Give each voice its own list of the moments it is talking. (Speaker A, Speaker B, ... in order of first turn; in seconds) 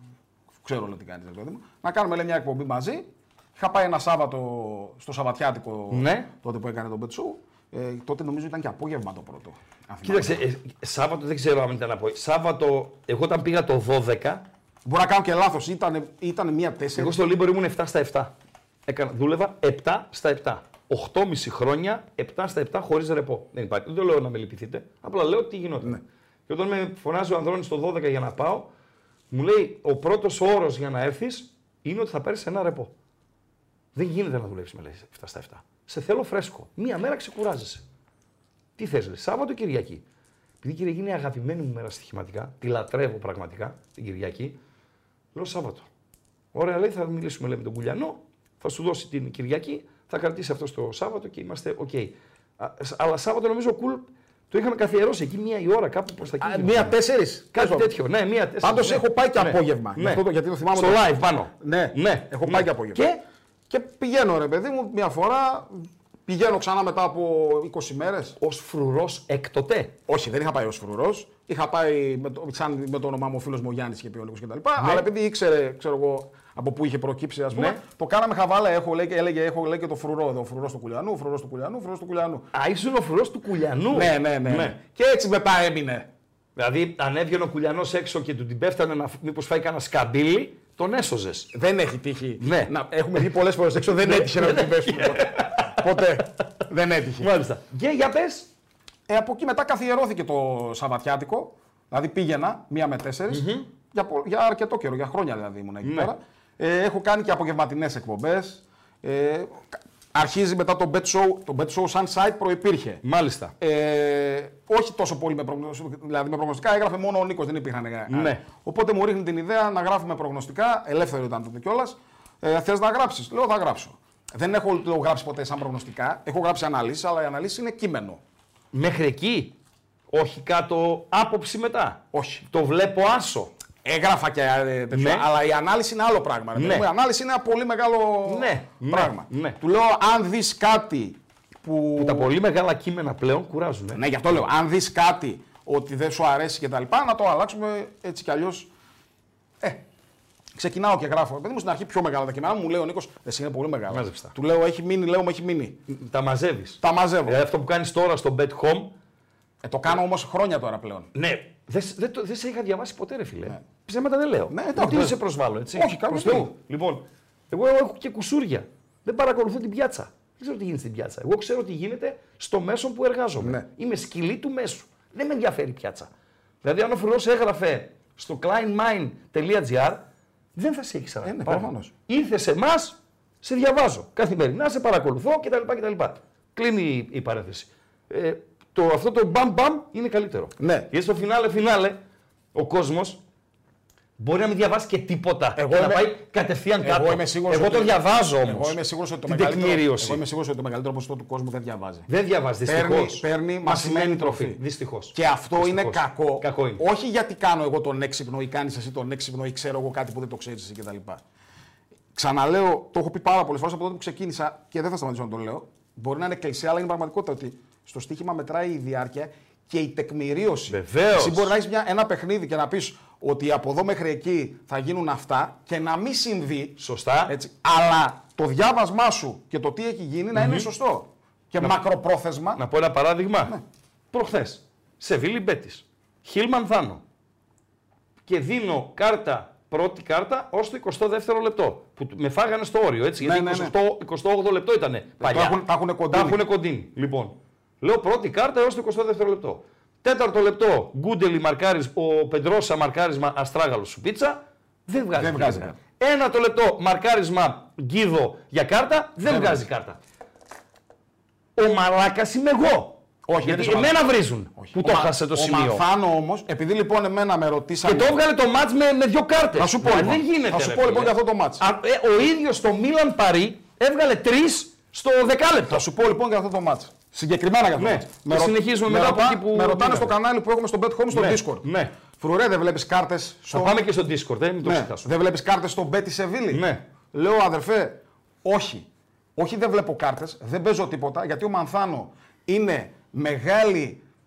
Speaker A: 0.6-10.4, 14.8-17.2, 56.4-57.9, 58.6-63.1, 63.7-68.4, 70.1-82.5, 83.9-86.1, 91.5-97.3, 99.1-113.0, 113.6-128.2, 132.1-132.4, 133.8-142.3, 143.9-148.7, 150.6-155.8, 156.8-157.4, 159.6-161.1, 164.5-165.2, 165.7-166.5, 173.4-173.7, 181.2-181.9, 190.6-190.9, 195.6-196.2, 196.8-202.1, 202.7-204.6, 205.1-211.2, 212.2-232.6, 243.2-243.8, 245.2-246.4, 255.2-255.8, 259.2-259.6, 263.3-264.0, 264.6-268.2, 269.6-271.6, 275.7-283.8, 284.6-294.0
Speaker B: 5.9-6.3, 10.0-14.4, 17.0-18.3, 18.9-28.7, 29.3-32.9, 34.0-37.8, 38.8-40.0, 40.6-44.6, 45.4-45.9, 46.5-57.0, 57.5-63.2, 68.4-69.9, 74.8-75.1, 77.5-77.8, 82.5-84.8, 86.6-91.5, 92.4-93.2, 93.8-96.1, 97.2-98.5, 103.3-103.7, 105.8-106.1, 113.0-113.5, 118.1-118.4, 128.7-129.6, 130.1-133.5, 134.9-135.3, 136.6-136.9, 138.2-139.6, 142.0-144.0, 153.9-154.3, 155.9-158.9, 161.1-176.1, 176.6-180.1, 180.6-192.0, 192.5-193.2, 194.2-200.2, 202.1-206.8, 220.7-221.6, 226.8-227.4, 230.3-230.7, 232.6-233.6, 234.1-237.0, 238.3-260.0, 261.6-265.8, 267.8-275.8, 277.8-280.1, 281.1-281.9, 283.5-285.1, 286.5-286.8